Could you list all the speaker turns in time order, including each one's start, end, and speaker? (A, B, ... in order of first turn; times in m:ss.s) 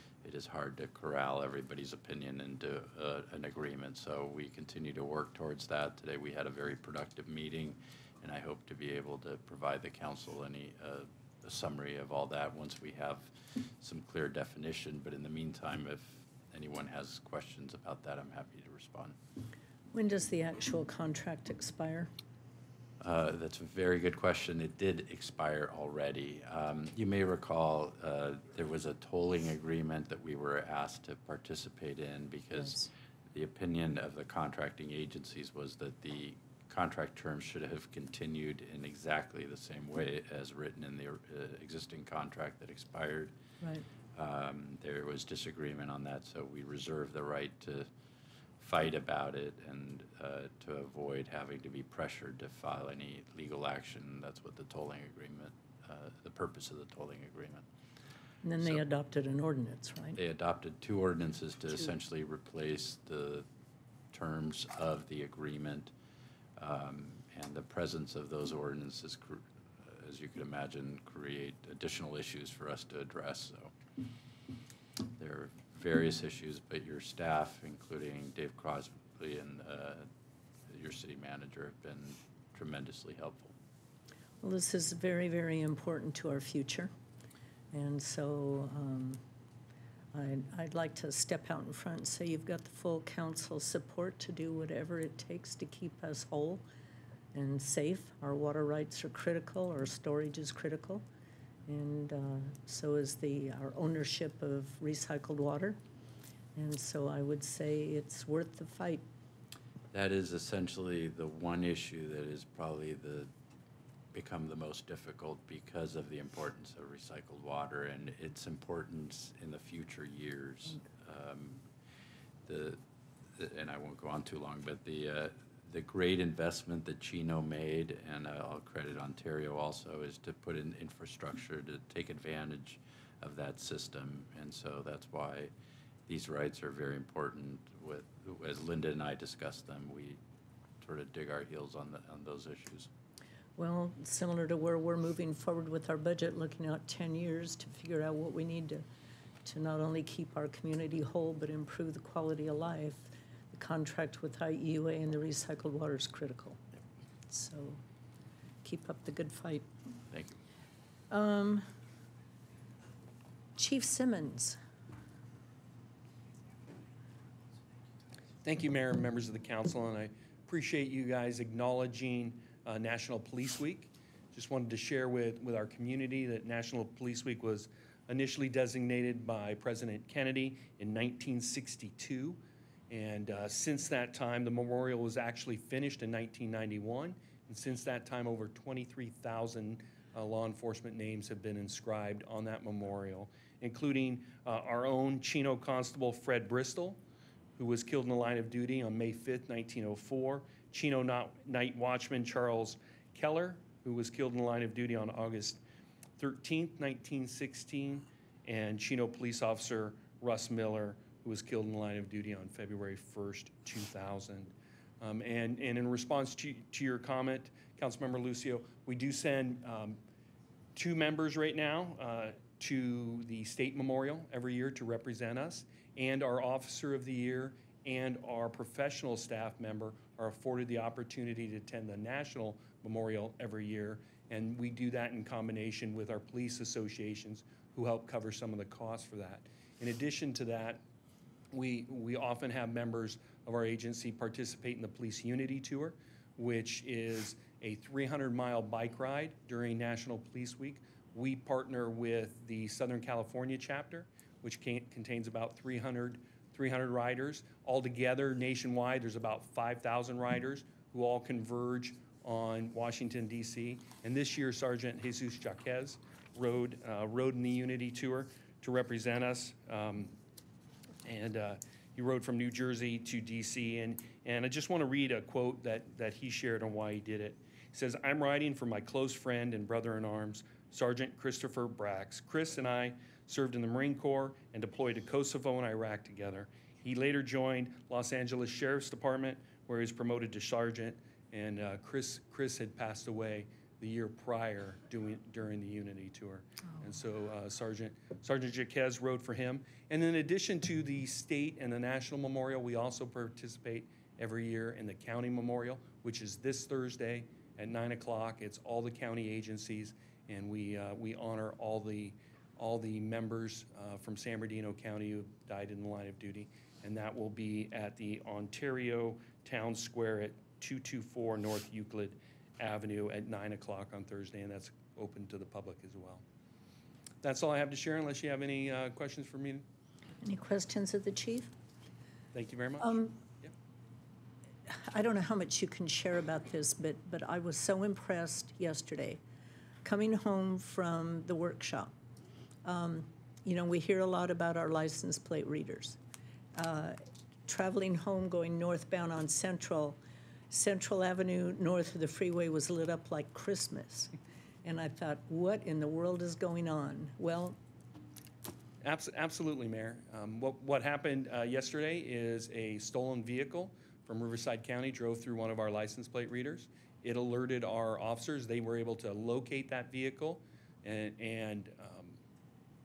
0:00.2-0:19.2 A
0:19.9-0:22.1 B
0:23.0-0:43.3 A
0:32.6-0:32.8 B
0:44.1-0:47.9 A
0:48.6-0:57.7 A
0:58.4-1:00.2 B
1:00.1-1:03.5 A
1:04.1-1:05.9 A
1:06.6-1:13.7 A
1:15.2-1:20.1 A
1:20.7-1:23.6 A
1:24.4-1:26.9 B
1:27.7-1:29.2 B
1:30.1-1:36.6 B
1:37.3-1:41.0 B
1:41.7-1:45.8 B
1:46.5-1:49.0 B
1:49.9-1:53.3 A
1:54.1-2:01.7 A
2:02.4-2:02.8 A
2:03.3-2:15.5 A
2:16.1-2:20.2 A
2:20.8-2:22.9 A
2:23.6-2:28.8 B
2:29.4-2:36.6 B
2:37.3-2:37.8 B
2:38.6-2:39.7 B
2:40.1-2:40.4 A
2:41.1-2:41.6 B
2:43.6-2:44.6 B
2:48.4-3:17.0 C
3:17.6-3:25.6 C
3:26.2-3:40.0 C
3:40.7-4:00.8 C
4:01.5-4:30.1 C
4:31.0-5:26.2 C
5:27.2-5:29.6 C
5:30.2-5:31.5 B
5:32.3-5:33.5 C
5:32.8-5:33.2 B
5:34.7-5:39.2 B
5:39.8-5:41.9 B
5:42.6-5:46.0 B
5:46.6-5:50.0 B
5:50.5-5:54.1 B
5:54.6-5:57.6 B
5:58.8-6:12.2 C